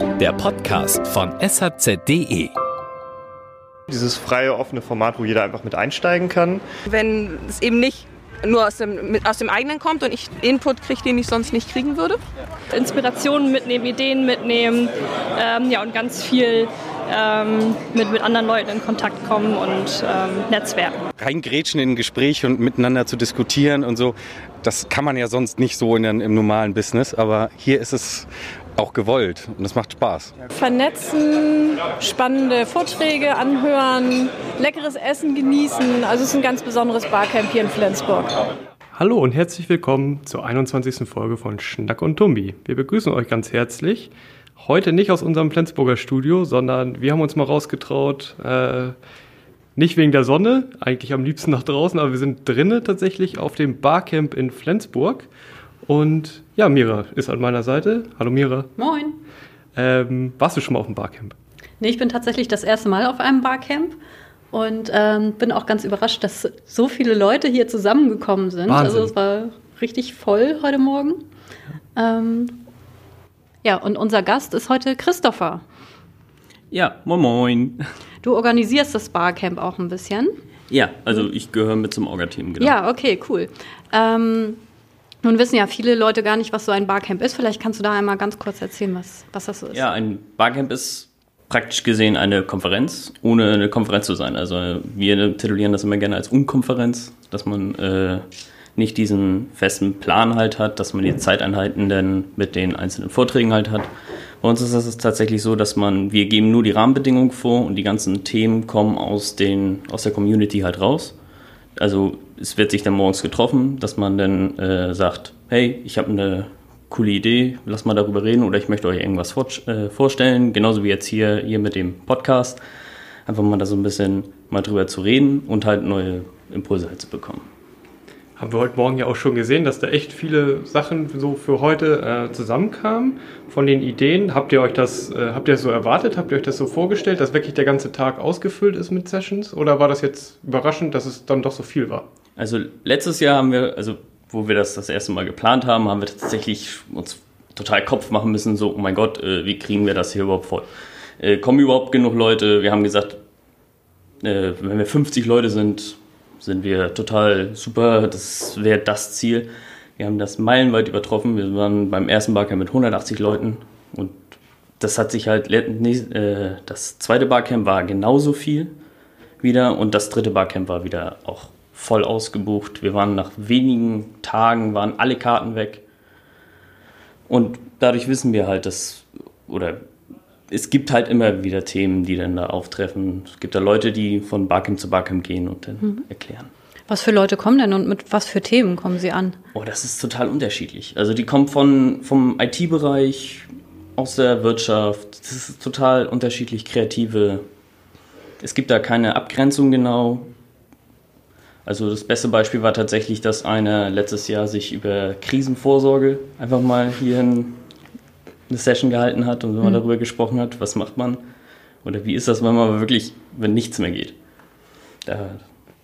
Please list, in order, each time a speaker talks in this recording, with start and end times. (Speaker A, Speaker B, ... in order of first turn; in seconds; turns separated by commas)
Speaker A: 3.9-6.6, Speaker B: 6.9-12.2, Speaker C: 12.7-21.0, Speaker D: 21.2-30.3, Speaker E: 30.5-38.3, Speaker F: 38.9-48.9, Speaker F: 49.8-55.3, Speaker F: 55.9-58.7, Speaker G: 58.8-59.2, Speaker F: 59.7-61.4, Speaker G: 61.8-64.0, Speaker G: 64.5-71.2, Speaker F: 68.7-69.1, Speaker G: 72.0-72.6, Speaker G: 73.6-75.6, Speaker H: 76.7-77.8, Speaker G: 78.2-80.3, Speaker H: 80.7-82.8, Speaker G: 82.6-84.6, Speaker G: 85.2-89.8, Speaker H: 89.7-98.2, Speaker H: 98.8-103.9, Speaker H: 104.4-111.1, Speaker H: 111.8-122.6, Speaker H: 123.2-127.4, Speaker F: 128.4-142.1, Speaker H: 142.4-150.7, Speaker H: 151.2-153.2, Speaker H: 154.2-164.2, Speaker H: 164.8-168.7, Speaker H: 169.4-175.8, Speaker H: 177.3-179.8, Speaker H: 180.5-186.5, Speaker G: 186.9-189.3, Speaker H: 189.5-197.4, Speaker H: 198.4-200.3, Speaker H: 201.7-207.6, Speaker H: 208.5-211.2, Speaker H: 211.8-214.1, Speaker H: 215.1-215.4